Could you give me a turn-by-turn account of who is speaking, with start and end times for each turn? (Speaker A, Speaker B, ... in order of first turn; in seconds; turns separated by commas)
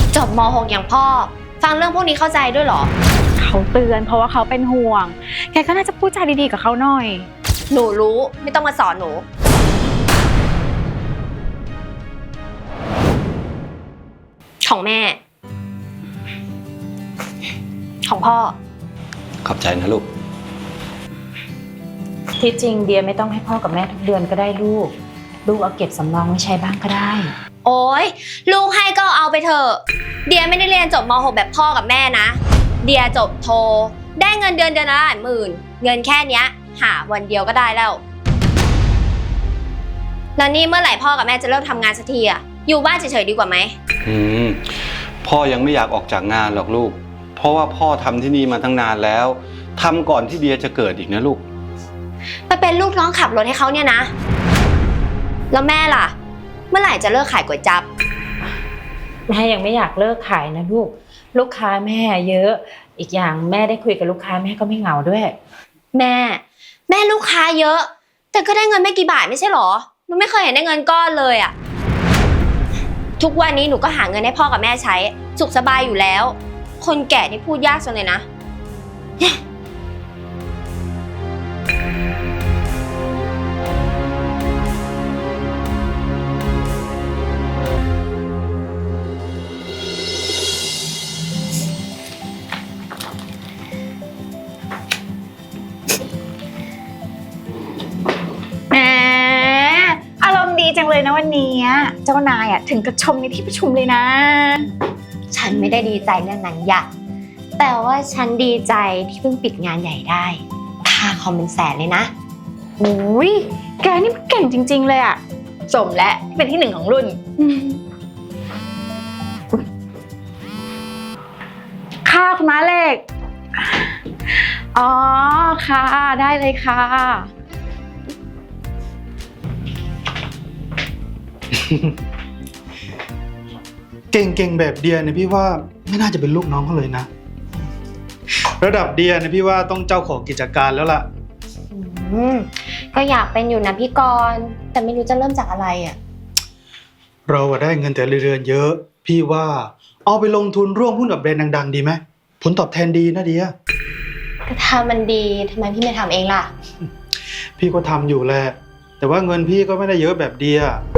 Speaker A: 0.1-2.9, Speaker B: 3.4-7.3, Speaker A: 7.7-9.2, Speaker A: 14.6-15.2, Speaker A: 18.1-18.6, Speaker C: 19.4-20.1, Speaker D: 22.4-24.9, Speaker D: 25.4-27.3, Speaker A: 27.6-38.0, Speaker A: 40.4-43.7, Speaker C: 44.0-51.4, Speaker A: 52.5-54.1, Speaker A: 55.5-56.1, Speaker A: 56.7-57.9, Speaker D: 59.3-65.4, Speaker A: 65.9-71.5, Speaker A: 73.2-78.2, Speaker B: 98.7-104.7, Speaker A: 105.3-106.9, Speaker A: 107.6-112.1, Speaker B: 112.8-117.8, Speaker B: 122.0-123.0, Speaker B: 123.6-127.3, Speaker E: 131.5-131.9, Speaker E: 134.1-137.1, Speaker E: 138.6-141.1, Speaker A: 141.7-146.0, Speaker E: 147.3-153.5, Speaker A: 154.5-156.5, Speaker E: 157.6-160.8